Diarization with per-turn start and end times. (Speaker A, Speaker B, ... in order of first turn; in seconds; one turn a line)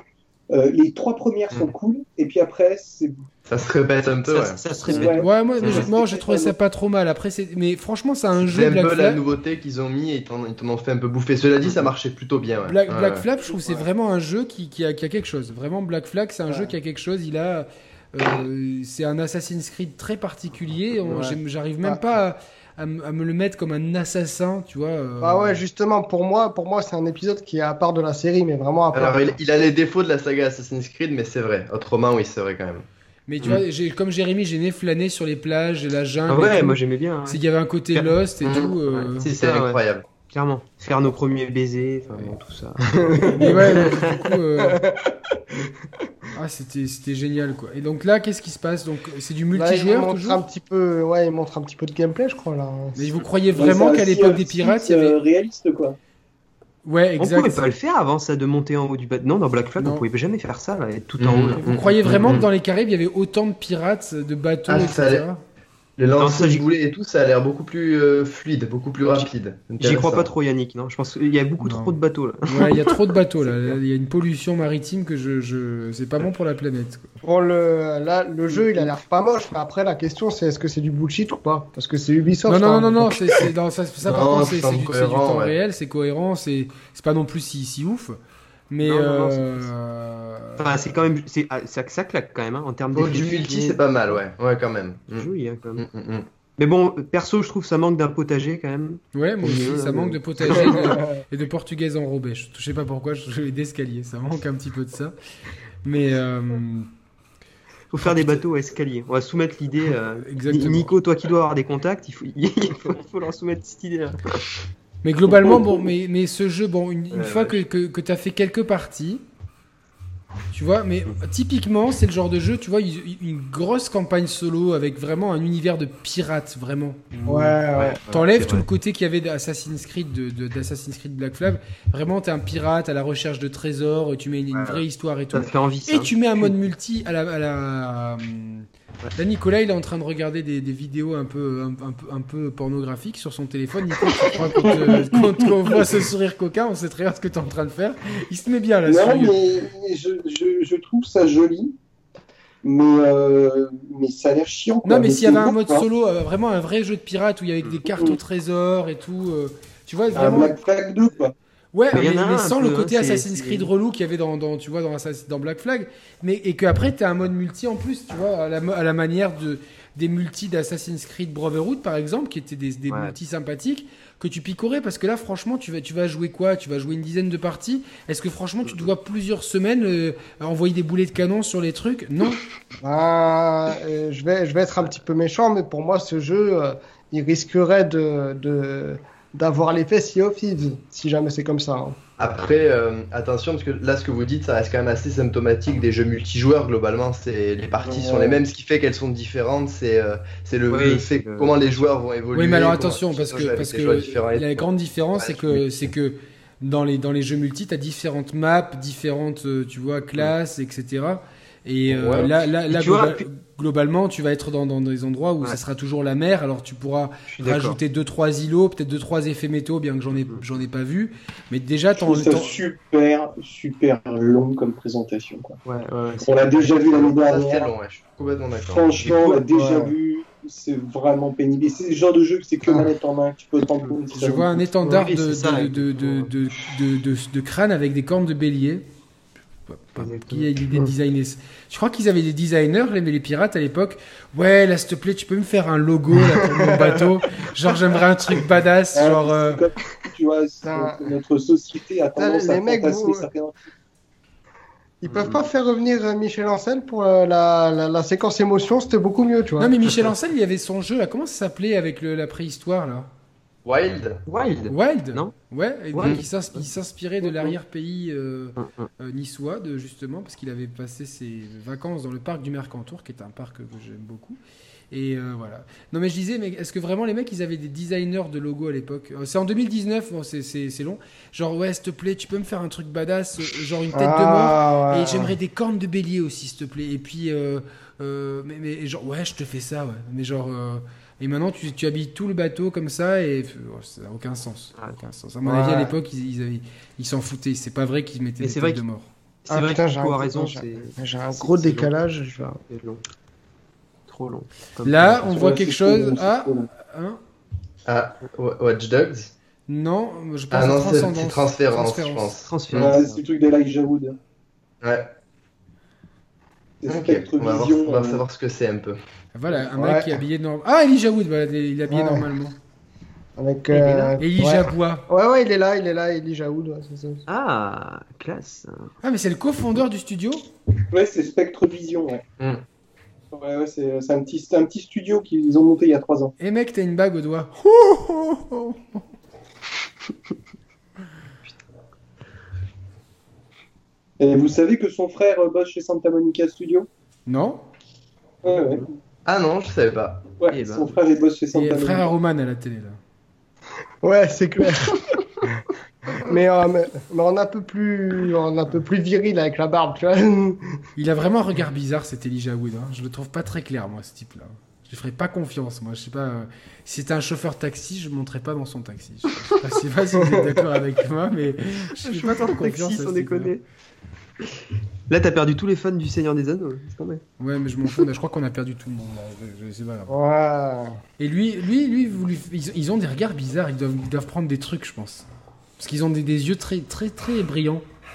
Speaker A: 0.5-3.2
Speaker B: 3.5-5.1
Speaker C: 4.3-5.9
Speaker A: 4.9-6.5
Speaker D: 4.9-9.2
Speaker B: 8.4-13.2
Speaker D: 12.7-25.6
Speaker A: 13.5-13.8
Speaker E: 16.5-16.7
Speaker E: 21.1-22.1
Speaker E: 25.2-29.4
Speaker B: 28.9-32.9
Speaker D: 33.3-39.3
Speaker C: 36.3-37.4
Speaker B: 38.4-38.7
Speaker C: 38.9-44.2
Speaker B: 39.2-40.1
Speaker E: 43.0-44.0
Speaker D: 43.4-44.8
Speaker E: 44.6-45.7
Speaker D: 46.3-50.4
Speaker E: 49.5-53.2
Speaker D: 53.0-55.2
Speaker A: 53.5-56.0
Speaker D: 56.9-57.7
Speaker C: 57.2-62.5
Speaker D: 59.8-60.1
Speaker B: 61.2-62.5
Speaker D: 61.5-65.4
Speaker B: 64.7-65.2
Speaker B: 66.0-70.3
Speaker C: 66.2-66.7
Speaker C: 69.8-73.2
Speaker D: 71.6-77.1
Speaker E: 77.2-83.5
Speaker D: 82.5-88.2
Speaker B: 84.0-85.5
Speaker D: 88.7-90.8
Speaker C: 88.8-89.7
Speaker C: 90.6-93.8
Speaker B: 92.9-96.3
Speaker C: 95.1-95.8
Speaker C: 96.6-100.9
Speaker D: 99.2-105.2
Speaker E: 100.6-101.2
Speaker D: 105.8-106.9
Speaker C: 107.9-114.4
Speaker D: 108.0-108.5
Speaker D: 110.2-110.9
Speaker D: 115.0-119.2
Speaker C: 115.4-115.8
Speaker C: 117.1-117.6
Speaker D: 120.5-149.4
Speaker E: 127.3-128.0
Speaker B: 127.8-128.3
Speaker C: 128.4-128.6
Speaker C: 134.5-136.6
Speaker A: 144.6-145.7
Speaker A: 148.9-151.7
Speaker A: 152.6-155.8
Speaker D: 154.8-160.6
Speaker A: 160.1-161.3
Speaker D: 161.7-182.4
Speaker C: 161.9-163.7
Speaker C: 172.9-173.2
Speaker E: 182.8-192.0
Speaker B: 192.2-205.7
Speaker A: 197.8-198.4
Speaker C: 200.7-201.9
Speaker D: 202.3-222.6
Speaker B: 211.9-212.3
Speaker C: 212.1-213.3
Speaker C: 217.3-217.8
Speaker A: 222.0-225.6
Speaker C: 225.7-226.7
Speaker A: 226.2-227.7
Speaker B: 226.6-229.1
Speaker A: 228.7-234.6
Speaker C: 229.0-229.4
Speaker E: 229.5-229.9
Speaker D: 234.1-238.9
Speaker C: 234.8-236.3
Speaker D: 239.7-249.6
Speaker C: 240.0-240.9
Speaker E: 246.2-247.0
Speaker A: 248.9-253.5
Speaker E: 250.6-251.1
Speaker E: 252.2-253.3
Speaker E: 255.0-259.7
Speaker C: 255.1-255.4
Speaker D: 259.6-263.1
Speaker B: 263.6-264.2
Speaker C: 264.3-265.3
Speaker D: 264.7-274.4
Speaker C: 265.9-266.7
Speaker C: 267.2-267.5
Speaker C: 268.6-268.9
Speaker D: 274.9-299.1
Speaker E: 283.9-285.4
Speaker E: 295.4-295.9
Speaker C: 298.4-298.8
Speaker C: 299.4-301.9
Speaker E: 299.5-302.6
Speaker C: 302.7-303.0
Speaker C: 304.1-305.3
Speaker D: 304.8-307.2
Speaker A: 305.3-306.7
Speaker B: 307.9-309.3
Speaker D: 309.7-312.3
Speaker B: 310.5-313.0
Speaker C: 312.5-313.2
Speaker A: 312.8-314.2
Speaker B: 314.8-315.1
Speaker A: 316.8-318.2
Speaker B: 316.9-319.0
Speaker D: 319.3-322.6
Speaker E: 319.7-320.2
Speaker E: 321.9-322.3
Speaker E: 323.4-327.2
Speaker C: 323.7-324.1
Speaker D: 324.2-325.1
Speaker C: 327.3-328.9
Speaker D: 329.0-330.5
Speaker A: 330.9-332.2
Speaker A: 333.3-336.4
Speaker D: 336.4-339.0
Speaker A: 344.2-346.9
Speaker D: 347.3-347.7
Speaker A: 348.4-348.9
Speaker B: 349.2-350.3
Speaker A: 350.4-352.1
Speaker C: 350.5-351.0
Speaker D: 351.5-353.0
Speaker E: 354.0-355.2
Speaker E: 356.1-360.6
Speaker D: 361.0-373.6
Speaker E: 370.2-370.6
Speaker C: 372.0-373.6
Speaker C: 374.4-377.2
Speaker D: 377.4-380.1
Speaker E: 380.1-381.0
Speaker D: 381.2-385.3
Speaker D: 385.8-387.8